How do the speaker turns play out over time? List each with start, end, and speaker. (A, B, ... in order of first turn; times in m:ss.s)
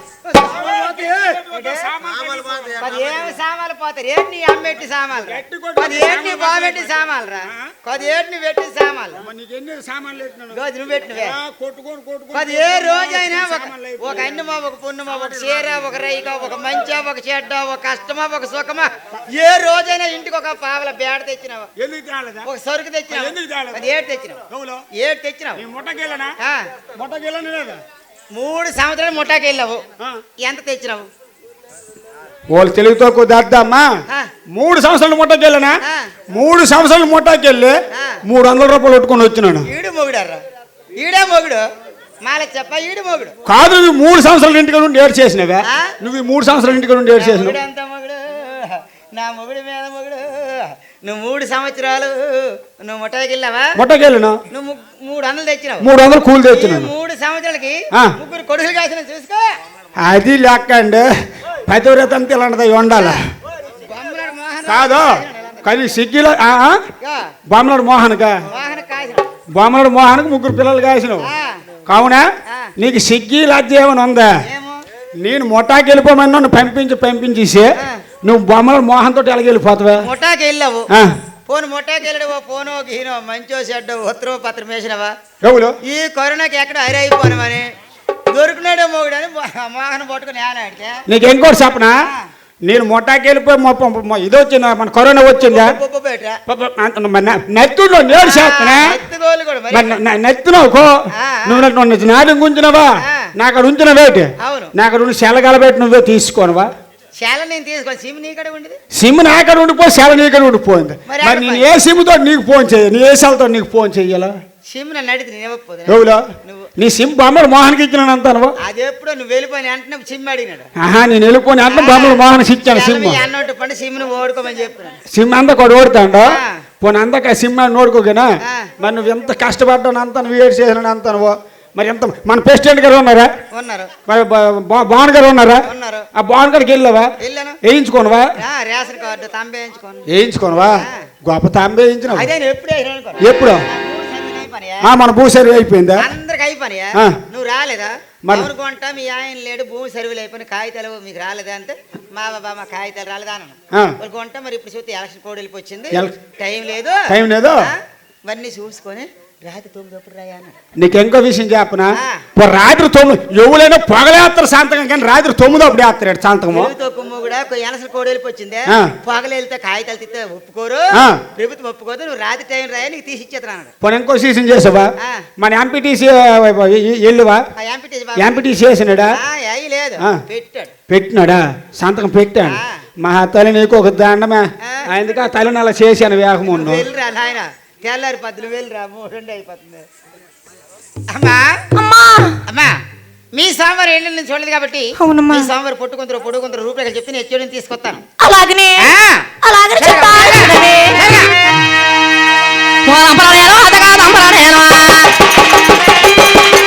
0:00.2-0:09.2 A
0:00.4-0:03.4 B
0:05.3-0:07.7 B
0:09.2-0:14.4 B
0:10.5-0:11.4 A
0:12.3-0:21.7 A
0:15.1-0:15.8 B
0:21.8-0:22.5 B
0:22.4-0:24.4 A
0:23.1-0:23.8 B
0:24.5-0:24.9 B
0:25.0-0:25.6 A
0:25.6-0:26.4 B
0:27.0-0:27.8 B
0:28.3-0:29.8 A
0:30.4-0:31.1 A
0:32.5-0:33.9 B
0:34.5-0:35.8 B
0:35.8-0:36.1 A
0:36.3-0:39.7 B
0:37.9-0:38.2 A
0:39.6-0:40.4 A
0:41.0-0:41.6 A
0:42.2-0:43.3 A
0:43.5-0:47.6 B
0:45.7-0:45.9 A
0:47.2-0:53.8 A
0:53.8-0:54.4 B
0:54.5-0:55.9 A
0:55.8-0:56.9 B
0:56.5-0:59.4 A
1:00.0-1:01.1 B
1:01.7-1:03.2 B
1:02.9-1:03.2 A
1:03.9-1:05.8 A
1:04.7-1:06.8 B
1:07.0-1:07.3 A
1:07.5-1:08.4 B
1:08.5-1:09.3 A
1:09.5-1:11.3 B
1:11.2-1:11.6 A
1:11.9-1:14.3 B
1:14.5-1:14.8 A
1:15.2-1:17.7 B
1:18.2-1:20.0 B
1:20.0-1:20.8 A
1:21.5-1:25.1 A
1:25.4-1:25.8 B
1:25.8-1:27.6 A
1:28.3-1:31.0 A
1:31.1-1:32.0 B
1:32.7-1:35.8 B
1:35.4-1:36.4 A
1:36.5-1:39.0 B
1:38.2-1:40.0 A
1:39.7-1:46.7 B
1:41.2-1:41.6 A
1:43.0-1:43.3 A
1:44.4-1:44.7 A
1:47.2-1:48.8 A
1:48.9-1:54.4 B
1:51.1-1:51.7 A
1:54.7-1:56.7 A
1:55.9-1:56.3 B
1:56.8-1:58.6 B
1:58.6-2:00.7 A
2:00.8-2:03.2 B
2:01.7-2:05.0 A
2:05.1-2:13.3 B
2:13.5-2:13.9 A
2:14.1-2:17.1 B
2:15.6-2:16.1 A
2:17.2-2:17.6 A
2:17.6-2:18.3 B
2:18.4-2:20.1 A
2:20.1-2:22.3 B
2:20.8-2:21.1 A
2:22.1-2:24.9 A
2:23.2-2:23.7 B
2:24.8-2:26.1 B
2:26.0-2:37.0 A
2:27.0-2:27.2 B
2:28.2-2:28.5 B
2:37.1-2:37.7 B
2:38.3-2:40.6 A
2:40.8-2:46.7 B
2:41.9-2:42.2 A
2:46.5-2:53.7 A
2:51.0-2:51.2 B
2:53.8-2:57.4 B
2:57.6-2:58.5 A
2:58.2-2:59.2 B
2:59.1-3:00.7 A
3:00.9-3:06.9 B
3:02.5-3:02.8 A
3:06.5-3:09.8 A
3:11.1-3:11.6 A
3:11.8-3:12.4 C
3:12.5-3:12.7 A
3:13.4-3:18.0 A
3:15.0-3:15.4 C
3:18.2-3:18.9 C
3:18.8-3:21.3 A
3:19.4-3:21.0 C
3:22.9-3:25.0 C